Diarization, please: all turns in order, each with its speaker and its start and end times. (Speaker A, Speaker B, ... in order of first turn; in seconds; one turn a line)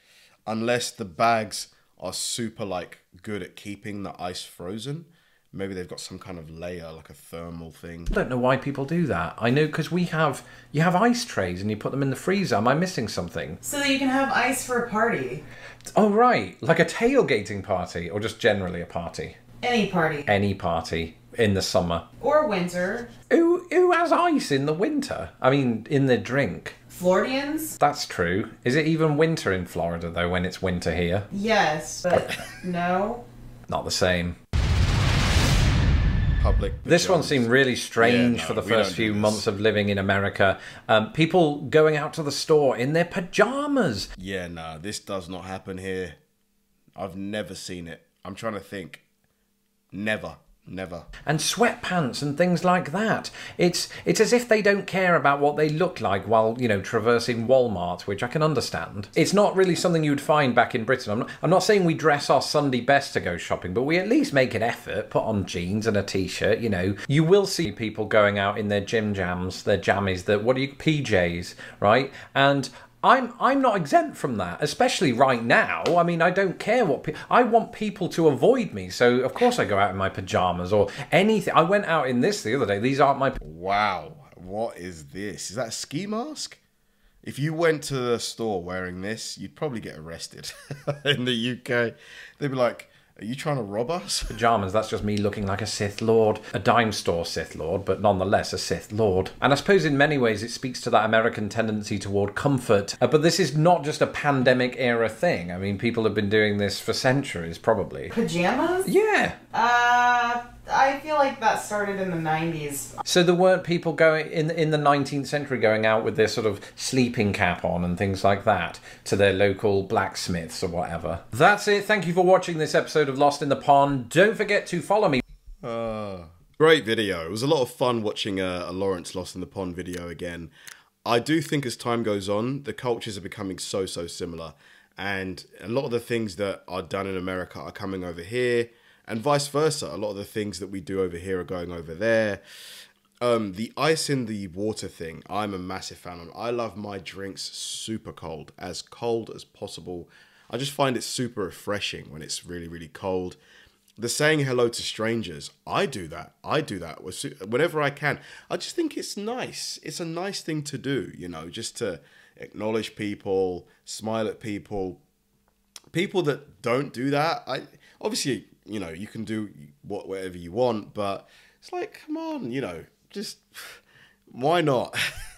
Speaker A: 0.5-8.1
Speaker B: 8.1-13.6
Speaker C: 13.6-15.4
Speaker B: 15.9-19.4
Speaker C: 19.6-20.3
Speaker B: 20.3-22.0
Speaker C: 22.2-23.1
Speaker B: 23.3-26.8
Speaker C: 26.9-27.8
Speaker B: 27.8-31.3
Speaker C: 31.3-33.2
Speaker B: 33.7-34.4
Speaker A: 36.4-39.4
Speaker B: 36.9-44.1
Speaker A: 44.2-46.1
Speaker A: 47.0-49.0
Speaker A: 49.9-51.1
Speaker B: 51.2-83.4
Speaker A: 83.4-86.6
Speaker A: 87.2-94.4
Speaker B: 94.3-108.1
Speaker C: 108.1-108.9
Speaker B: 108.8-109.4
Speaker C: 109.5-113.0
Speaker B: 113.0-125.2
Speaker A: 125.6-130.5
Speaker A: 131.0-142.4
Speaker A: 143.2-153.4
Speaker A: 154.0-165.0
Speaker A: 165.9-173.8
Speaker A: 174.3-175.0